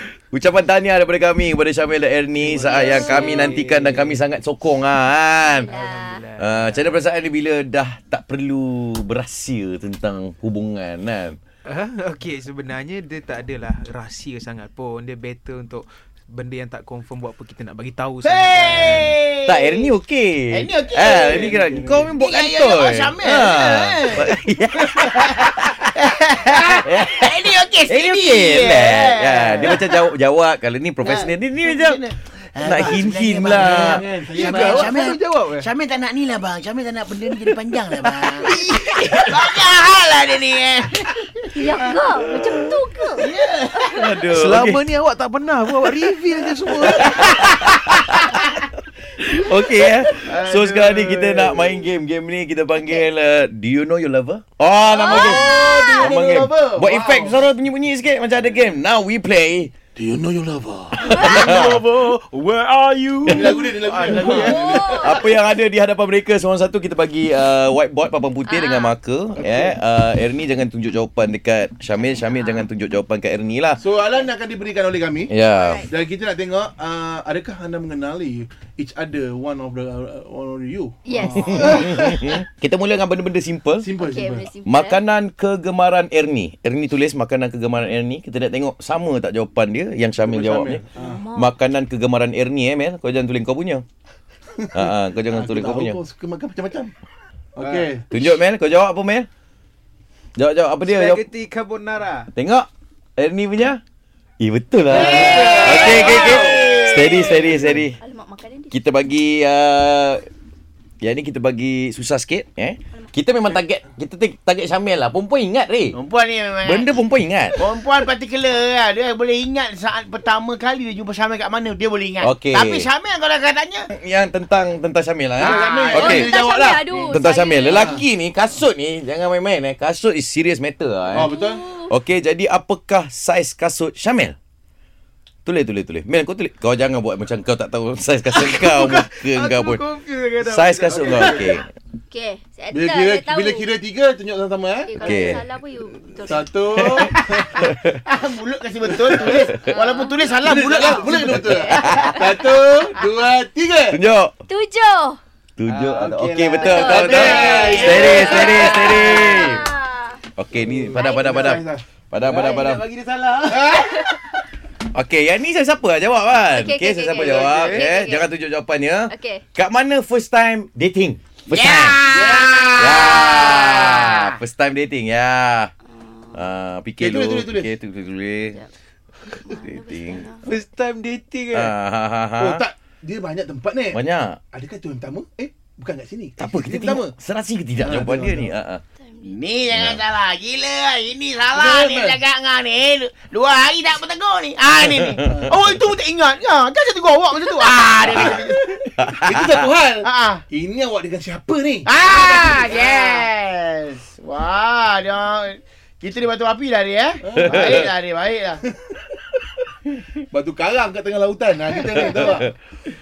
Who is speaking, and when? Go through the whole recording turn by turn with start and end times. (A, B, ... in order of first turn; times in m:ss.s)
0:00.3-0:05.7 A
0:02.4-0:04.2 B
0:02.9-0:03.5 C
0:05.4-0:06.2 C
0:05.7-0:07.0 B
0:06.4-0:11.4 A
0:11.7-0:19.1 B
0:18.2-0:19.9 D
0:19.4-0:25.9 A
0:20.5-0:21.6 D
0:21.0-0:22.1 E
0:22.1-0:29.9 D
0:26.7-0:32.0 A
0:31.0-0:41.3 D
0:32.6-0:34.0 A
0:33.5-0:35.0 E
0:34.4-0:35.7 B
0:37.3-0:39.4 B
0:41.5-0:43.3 C
0:42.3-0:42.7 A
0:43.2-0:44.3 D
0:43.9-0:44.8 A
0:44.3-0:48.0 B
0:46.6-0:48.4 A
0:49.1-0:59.7 A
0:50.1-0:50.7 D
0:50.7-0:51.4 E
0:54.9-0:56.8 D
0:54.9-0:56.1 C
0:56.4-0:57.4 E
1:00.0-1:02.0 E
1:01.0-1:01.8 A
1:01.1-1:04.6 B
1:01.2-1:01.4 C
1:03.2-1:05.2 E
1:03.4-1:04.9 D
1:04.5-1:05.2 C
1:04.8-1:13.8 A
1:08.4-1:08.9 C
1:09.4-1:09.7 E
1:13.8-1:15.3 E
1:15.3-1:15.8 A
1:15.5-1:15.9 C
1:15.9-1:22.4 E
1:21.0-1:22.0 C
1:21.2-1:23.8 A
1:23.8-1:24.5 E
1:24.0-1:25.0 C
1:24.6-1:30.8 A
1:30.2-1:31.2 E
1:31.0-1:31.5 C
1:31.3-1:33.8 A
1:34.5-1:36.9 E
1:34.7-1:36.0 A
1:37.6-1:38.0 E
1:38.1-1:39.3 A
1:40.4-1:41.2 A
1:40.8-1:42.3 B
1:42.3-1:43.8 A
1:44.4-1:48.0 A
1:44.9-1:47.4 D
1:44.9-1:46.6 B
1:45.7-1:48.8 C
1:48.7-1:50.3 A
1:51.0-1:56.0 A
1:55.9-1:57.0 D
1:56.6-1:57.6 A
1:57.5-2:03.9 D
2:02.2-2:02.9 A
2:03.9-2:06.3 A
2:05.4-2:06.9 E
2:05.4-2:06.1 D
2:06.0-2:08.0 C
2:07.1-2:11.3 A
2:07.7-2:08.0 E
2:11.1-2:11.7 E
2:11.2-2:11.9 C
2:11.9-2:14.4 A
2:15.4-2:19.8 A
2:18.3-2:21.6 B
2:20.4-2:21.7 A
2:22.1-2:23.7 C
2:22.7-2:25.2 E
2:24.8-2:27.7 C
2:25.0-2:25.4 A
2:26.2-2:27.7 E
2:26.8-2:28.0 A
2:28.0-2:32.2 D
2:29.1-2:29.6 E
2:29.6-2:30.1 C
2:30.4-2:34.0 E
2:31.3-2:32.4 C
2:31.3-2:32.2 A
2:33.9-2:34.3 A
2:34.5-2:35.2 C
2:35.6-2:39.7 A
2:35.7-2:39.4 B
2:36.6-2:38.8 E
2:36.6-2:40.2 C
2:36.7-2:38.7 D
2:40.4-2:42.8 A
2:40.5-2:41.8 E
2:41.0-2:41.6 C
2:42.2-2:44.1 B
2:42.3-2:42.7 C
2:43.5-2:43.8 E
2:43.7-2:44.1 C
2:44.9-2:52.0 A
2:46.5-2:48.3 C
2:47.2-2:47.8 B
2:49.1-2:49.4 C
2:51.5-2:54.4 D
2:52.4-2:52.7 B
2:52.7-2:55.7 A
2:56.0-2:56.4 C
2:56.3-2:58.6 A
2:57.0-2:57.7 E
2:59.3-3:00.5 C
2:59.5-3:00.3 A
3:00.4-3:01.7 B
3:01.5-3:02.6 A
3:02.4-3:04.0 E
3:03.9-3:04.4 A
3:04.5-3:07.1 E
3:06.4-3:08.8 A
3:07.8-3:08.5 E
3:09.0-3:09.3 C
3:09.2-3:18.9 D
3:09.7-3:10.0 A
3:11.5-3:12.2 E
3:15.3-3:15.6 E
3:18.1-3:23.1 E
3:19.0-3:19.6 A
3:20.0-3:20.4 D
3:21.9-3:28.6 D
3:27.2-3:27.9 E
3:27.4-3:27.8 A
3:28.7-3:29.3 E
3:30.3-3:32.5 E
3:32.0-3:32.5 A